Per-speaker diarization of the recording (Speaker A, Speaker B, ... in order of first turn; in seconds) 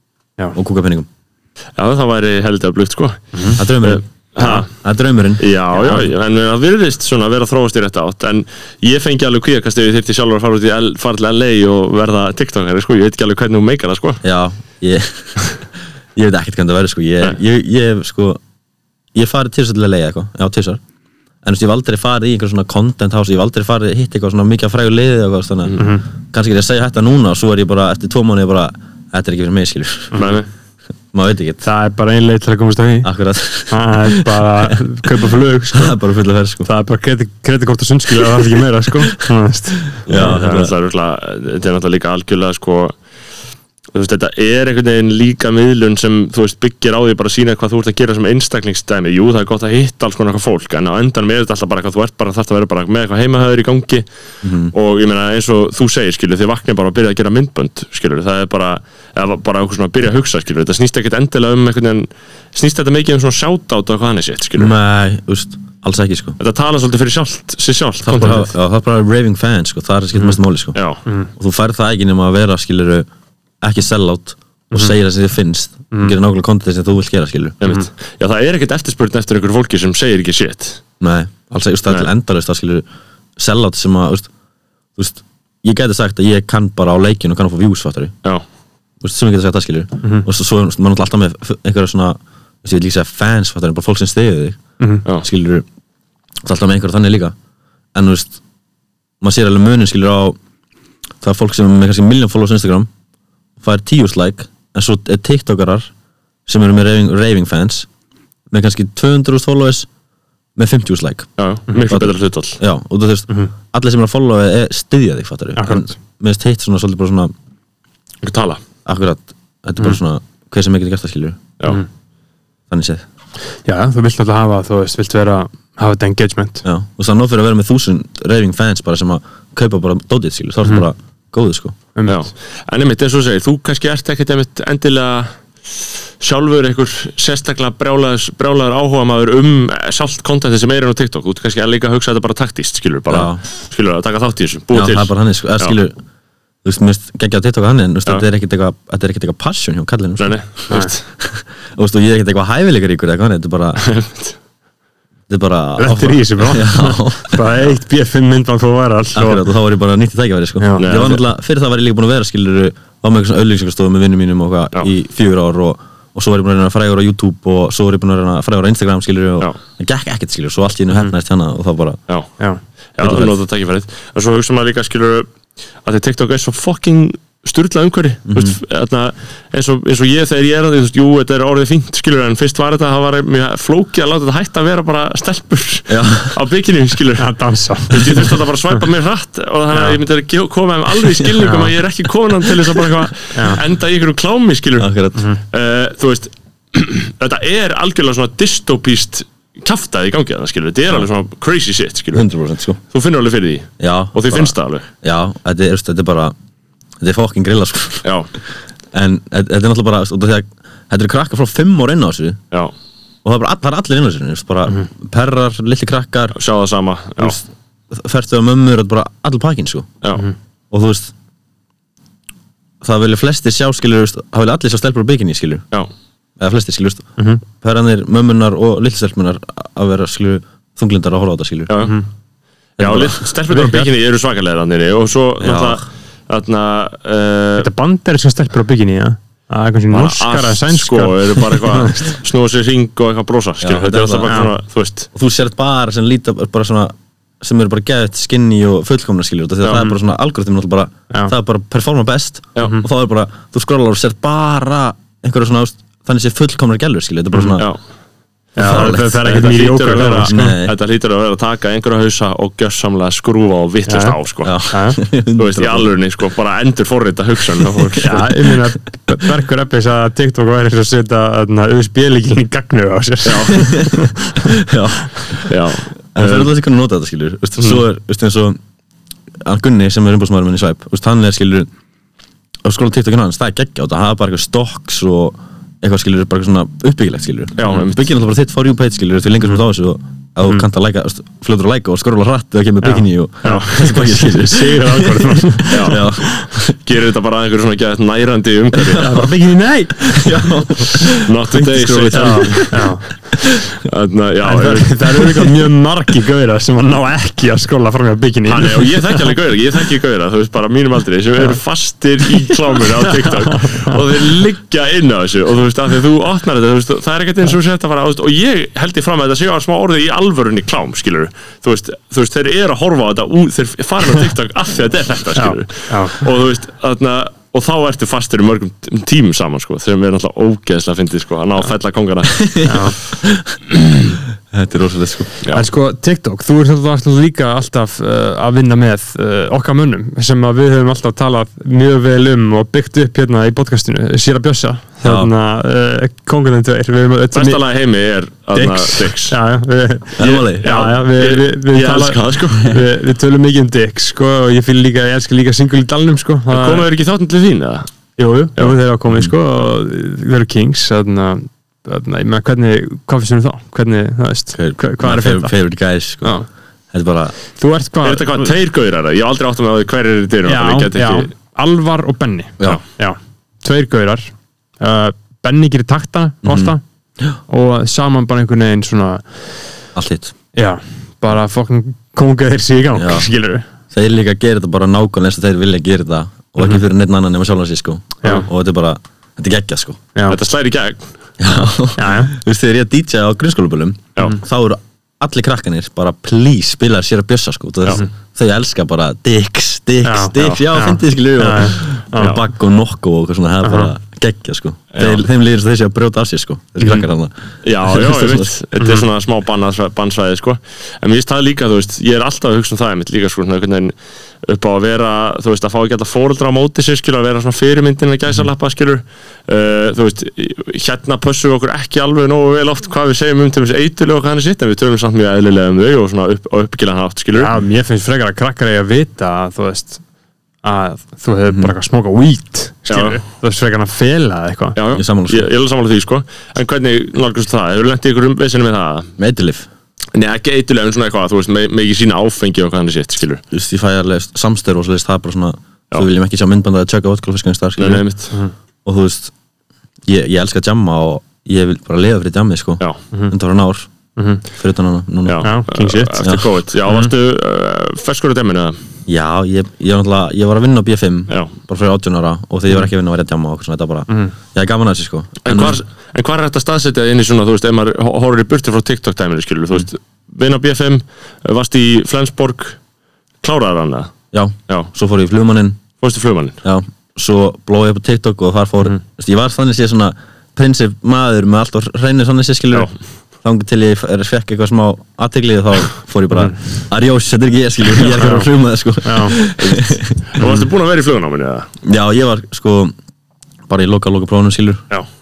Speaker A: 0.5-1.1, 3.6-5.5, 14.2-15.6, 16.1-18.4, 19.1-20.8, 21.4-30.3, 31.1-31.6, 33.0-36.7, 40.0-40.7, 54.4-54.7, 64.6-66.4, 68.0-70.8, 71.4-73.1, 73.6-77.6, 81.0-82.8, 83.4-84.3, 85.0-88.1, 89.0-95.7, 96.4-97.3, 97.9-98.4, 99.2-100.4, 101.2-102.9, 103.6-105.9, 106.5-107.9, 108.5-109.9, 110.6-111.3, 111.9-117.3, 118.8-121.4, 122.7-123.0, 126.6-131.8, 143.1-143.4, 144.7-146.0, 146.6-153.9, 155.3-157.5, 159.1-172.0, 173.0-173.4, 178.3-178.6, 185.9-186.4, 194.8-195.3, 202.1-202.8, 203.8-206.3, 207.0-208.1, 208.9-212.4, 213.2-216.4, 217.2-219.9, 220.7-221.1, 222.8-225.7, 226.4-231.7, 232.8-233.3, 235.4-235.8, 243.6-244.5, 245.2-257.7, 258.6-259.5, 260.3-260.7, 264.4-265.9, 273.6-275.5, 276.1-278.6, 279.4-281.7, 282.6-296.8, 298.9-299.2, 300.0-301.4, 332.4-333.6, 334.5-335.4, 345.0-345.3, 350.2-350.7, 364.5-367.3, 376.4-377.4, 379.9-380.3, 382.9-383.3, 383.9-390.0, 391.4-408.5, 431.5-431.8, 434.9-435.5, 439.2-439.7, 443.5-448.0, 448.9-449.3, 450.1-453.9, 454.6-455.6, 459.1-465.8, 474.3-475.8, 476.6-482.9, 483.4-490.2, 491.8-492.9, 493.7-494.8
Speaker B: 1.8-4.7, 5.4-14.2, 30.1-30.5, 40.1-43.0, 43.9-54.0, 54.7-64.7, 66.4-68.5, 70.8-71.0, 77.6-80.8, 111.4-112.6, 118.2-118.6, 132.1-145.7, 150.2-151.0, 153.8-154.4, 160.8-161.2, 173.0-175.3, 175.8-187.3, 187.9-202.3, 202.9-204.9, 208.0-208.3, 216.3-217.4, 231.7-232.0, 232.8-237.7, 239.9-245.1, 258.6-264.6, 265.4-268.3, 273.2-273.6, 275.5-276.5, 287.6-288.1, 295.7-296.1, 296.7-299.3, 301.2-303.0, 303.8-305.6, 308.5-332.9, 347.3-349.4, 350.2-352.8, 356.5-357.9, 368.0-371.3, 390.3-391.1, 404.9-405.3, 407.6-427.5, 432.9-433.2, 434.8-439.1, 440.1-443.4, 447.8-448.4, 455.3-458.8, 465.4-472.8, 473.4-474.1, 476.0-476.6, 489.6-491.7
Speaker C: 5.7-6.1, 25.8-26.1, 31.6-33.1, 33.7-36.0, 36.6-40.4, 115.6-115.9, 123.7-126.6, 132.0-132.2, 155.8-159.4, 160.6-160.9, 187.2-188.8, 189.7-190.0, 191.4-191.8, 193.3-193.6, 227.2-227.4, 233.5-233.9, 237.6-242.2, 258.6-260.6, 263.9-264.2, 264.7-265.0, 268.0-274.5, 292.8-296.5, 299.0-300.2, 301.6-303.0, 304.4-309.3, 313.0-314.0, 325.4-326.3, 332.6-333.0, 335.5-347.6, 348.5-356.9, 358.2-365.5, 367.6-368.5, 370.5-376.8, 377.5-379.4, 380.6-383.6, 386.6-386.8, 392.0-392.3, 400.0-402.4, 403.6-403.9, 406.8-407.1, 408.8-409.1, 427.3-430.0, 430.6-434.8, 454.2-454.4, 455.4-456.3, 456.9-457.1, 488.1-488.5, 489.1-489.4, 490.4-490.6